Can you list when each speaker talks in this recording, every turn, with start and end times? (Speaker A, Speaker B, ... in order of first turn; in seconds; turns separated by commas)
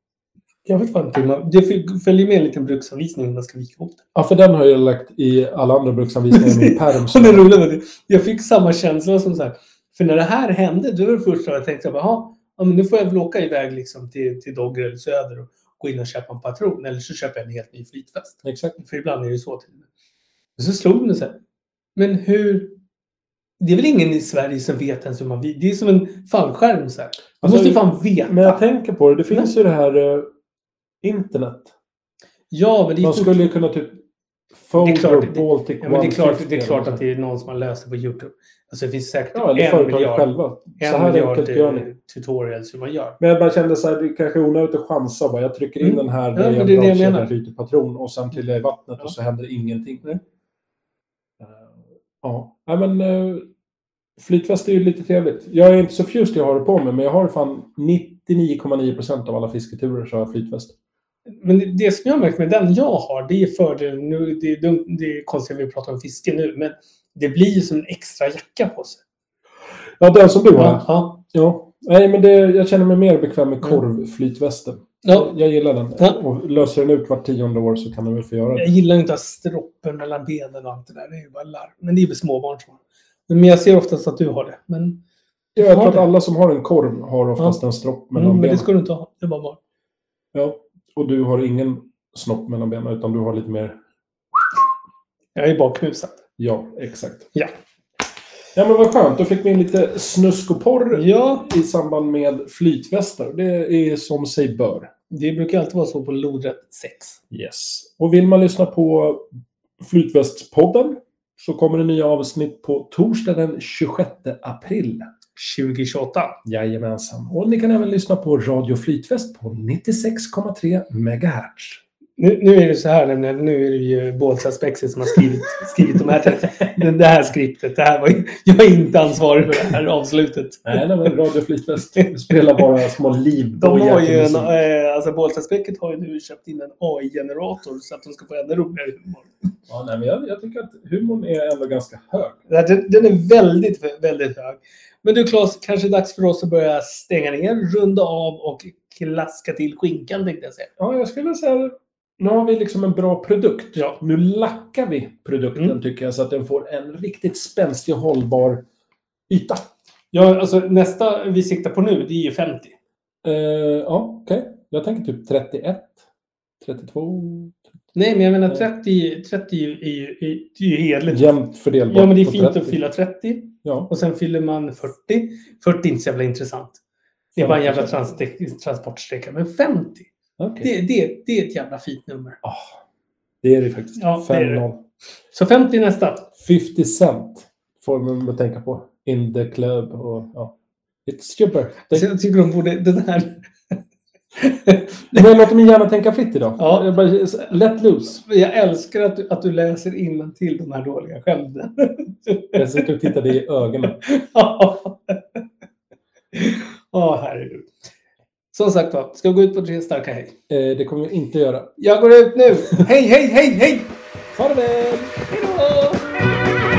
Speaker A: 0.6-4.0, Speaker B: 4.1-7.5, Speaker A: 6.3-19.9, Speaker B: 18.4-18.8, Speaker A: 20.6-21.4, Speaker A: 21.9-22.8, Speaker A: 23.6-28.6, Speaker B: 27.4-30.3, Speaker B: 31.0-31.7, Speaker A: 32.5-33.5, Speaker B: 33.0-34.0, Speaker B: 34.5-37.0, Speaker A: 34.8-43.2, Speaker B: 39.3-41.9, Speaker B: 43.2-50.0, Speaker A: 45.8-47.3, Speaker B: 51.4-53.5, Speaker B: 54.2-60.7, Speaker A: 61.4-69.0, Speaker B: 70.0-78.7, Speaker A: 70.5-71.2, Speaker A: 75.0-75.3, Speaker A: 78.6-85.0, Speaker B: 85.6-88.7, Speaker A: 85.6-86.1, Speaker A: 88.1-89.6, Speaker B: 90.3-93.8, Speaker A: 95.3-96.2, Speaker B: 96.4-97.3, Speaker B: 98.5-104.9, Speaker A: 100.9-101.5, Speaker A: 105.1-107.2, Speaker B: 107.3-109.3, Speaker B: 109.8-115.1, Speaker A: 115.4-116.4, Speaker B: 116.5-121.8, Speaker A: 122.2-131.1, Speaker B: 130.6-134.5, Speaker A: 131.9-132.6, Speaker A: 133.6-139.3, Speaker B: 139.7-142.4, Speaker A: 142.5-150.7, Speaker B: 150.8-158.6, Speaker B: 159.3-159.7, Speaker A: 160.1-162.7, Speaker B: 163.2-165.9, Speaker B: 166.6-167.6, Speaker A: 167.9-171.3, Speaker B: 171.1-172.8, Speaker A: 171.9-176.8, Speaker B: 173.6-173.9, Speaker B: 177.3-178.1, Speaker A: 177.4-180.1, Speaker B: 180.4-180.7, Speaker A: 180.6-182.4, Speaker B: 182.4-182.8, Speaker B: 183.4-184.8, Speaker A: 184.0-184.6, Speaker A: 185.3-186.3, Speaker B: 186.4-190.5, Speaker B: 191.1-192.1, Speaker A: 191.9-193.8, Speaker A: 194.4-195.2, Speaker B: 195.1-198.2, Speaker A: 196.6-196.9, Speaker A: 198.2-203.1, Speaker B: 202.5-204.0, Speaker A: 203.8-205.4, Speaker A: 206.3-207.7, Speaker A: 208.5-210.3, Speaker B: 210.5-211.8, Speaker A: 211.8-213.9, Speaker B: 214.3-215.2, Speaker A: 215.3-216.1